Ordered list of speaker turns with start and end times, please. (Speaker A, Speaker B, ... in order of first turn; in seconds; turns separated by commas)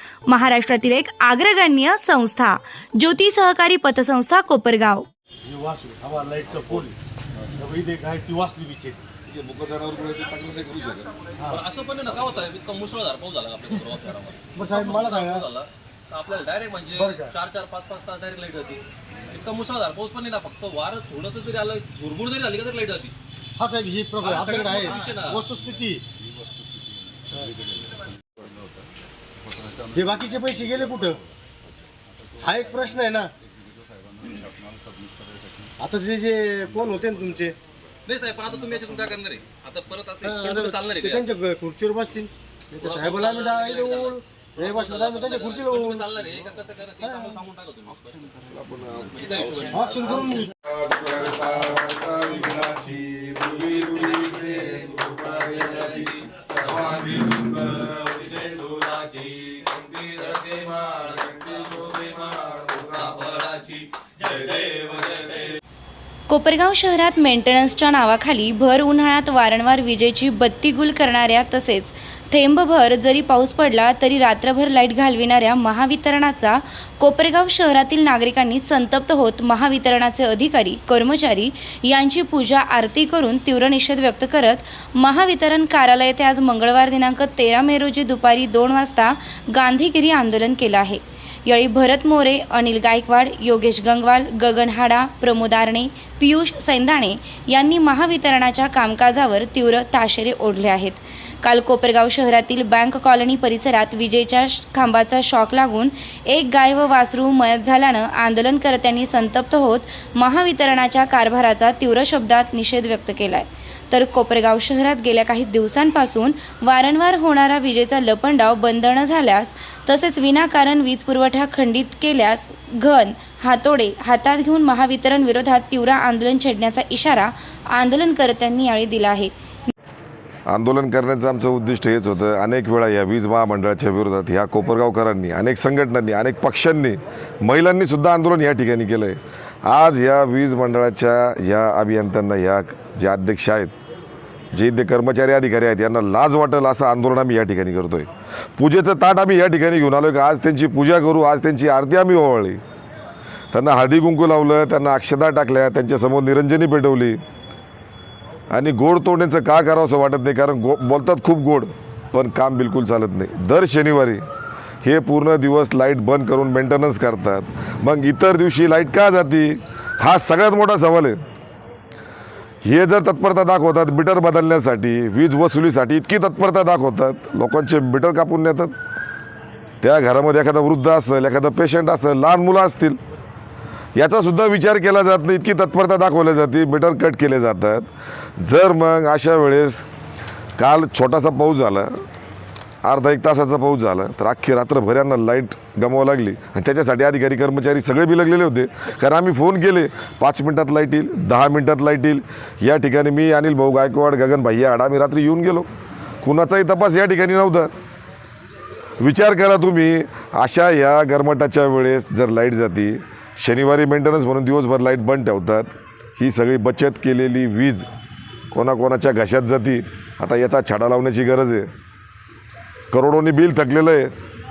Speaker A: 0.3-5.1, Speaker B: 5.4-6.9, Speaker B: 7.6-9.0, Speaker C: 9.2-11.2, Speaker D: 11.5-23.1, Speaker B: 14.5-15.4, Speaker B: 16.9-17.3, Speaker B: 23.6-26.0, Speaker D: 24.2-25.4, Speaker B: 29.9-31.2, Speaker B: 32.4-33.3, Speaker B: 35.8-37.5, Speaker D: 38.0-41.4, Speaker B: 40.2-46.0, Speaker D: 42.8-48.3, Speaker B: 47.0-47.4, Speaker C: 48.5-65.6, Speaker D: 49.1-50.2, Speaker B: 49.7-50.5, Speaker A: 66.3-129.3, Speaker C: 130.5-143.7, Speaker C: 144.5-152.6, Speaker C: 153.5-157.2, Speaker C: 158.5-164.2, Speaker C: 164.8-171.2, Speaker C: 172.6-178.7, Speaker C: 179.8-183.0, Speaker C: 183.9-187.9, Speaker C: 188.4-189.8, Speaker C: 190.6-191.9, Speaker C: 192.8-205.7, Speaker C: 206.2-207.7, Speaker C: 209.0-217.8, Speaker C: 218.5-221.7, Speaker C: 222.9-224.1